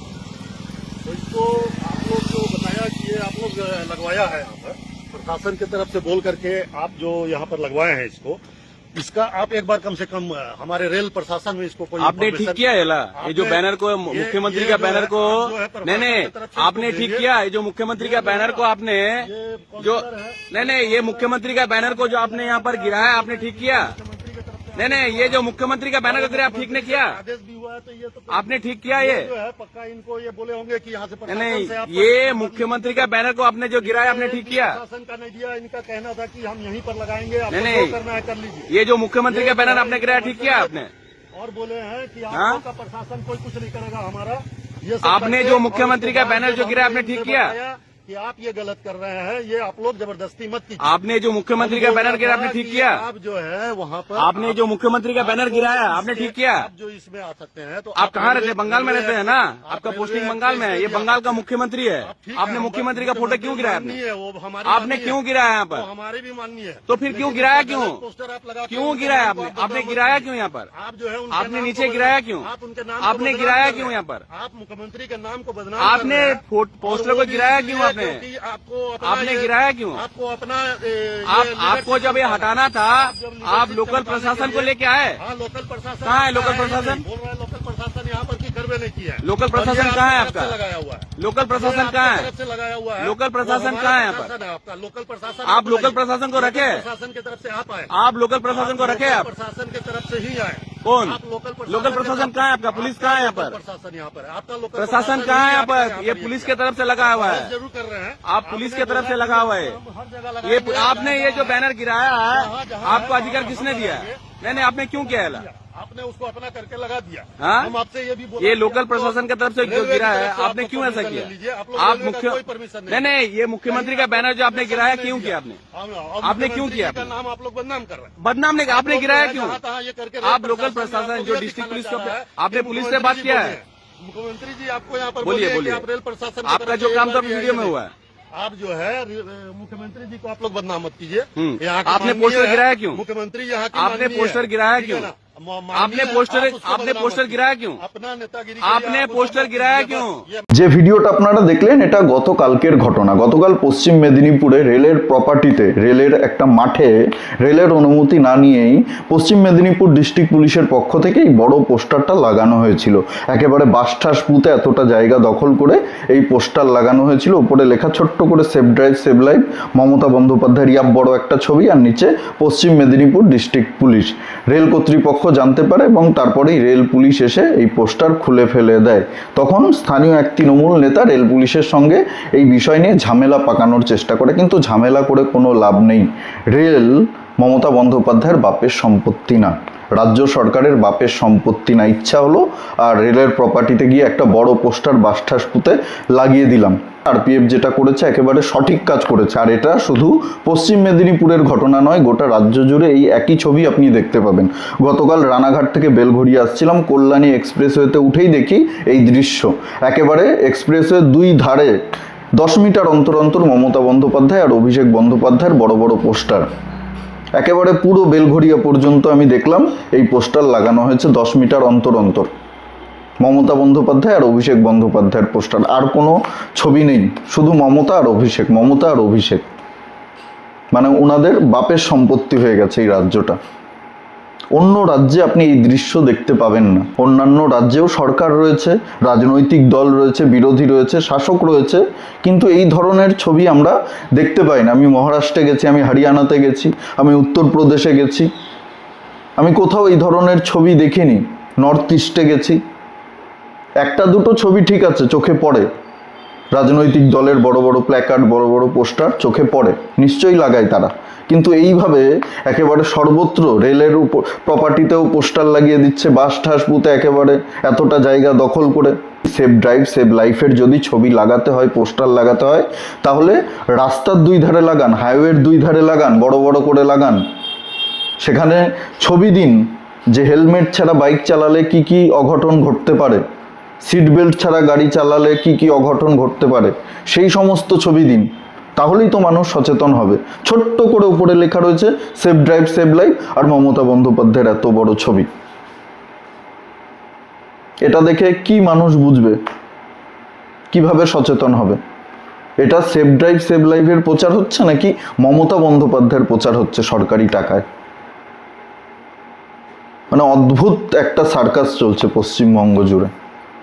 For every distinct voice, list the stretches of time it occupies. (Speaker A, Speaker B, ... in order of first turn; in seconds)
Speaker A: 1.0-8.4, 8.9-12.6, 13.1-17.3, 18.0-18.7, 19.2-33.1, 33.8-38.7, 39.3-40.8, 41.3-50.9, 51.5-54.6, 55.1-61.4, 62.0-97.9, 98.4-111.6, 112.2-123.1, 123.7-137.8, 138.3-150.5
Speaker B: 12.0-19.3, 19.8-23.9, 24.8-27.2, 28.3-29.3, 31.3-34.8, 37.5-38.0, 38.7-40.9, 42.3-42.6, 45.0-47.5, 50.8-53.0, 54.2-56.7, 58.0-64.0, 64.7-65.9, 66.9-68.0, 68.7-70.7, 71.3-72.5, 73.0-74.2, 75.8-78.2, 79.0-80.0, 81.3-85.2, 86.0-87.0, 89.2-90.6, 91.2-92.3, 93.0-94.3, 95.5-96.8, 97.9-99.3, 100.8-103.6, 104.8-107.5, 108.2-109.8, 110.4-115.5, 117.4-117.7, 118.4-125.6, 126.2-127.1, 128.2-129.6, 130.2-133.6, 135.2-135.8, 136.4-137.9, 141.4-143.0, 143.7-145.1, 145.7-147.8, 148.6-150.2
Speaker C: 150.5-211.7, 212.4-216.5, 217.4-222.3, 223.2-229.4, 230.7-233.4, 234.6-248.3, 249.4-252.6, 253.8-255.7, 256.5-277.2, 278.2-283.2, 283.8-295.3, 297.8-299.4, 300.7-301.8, 302.6-307.6, 310.1-313.1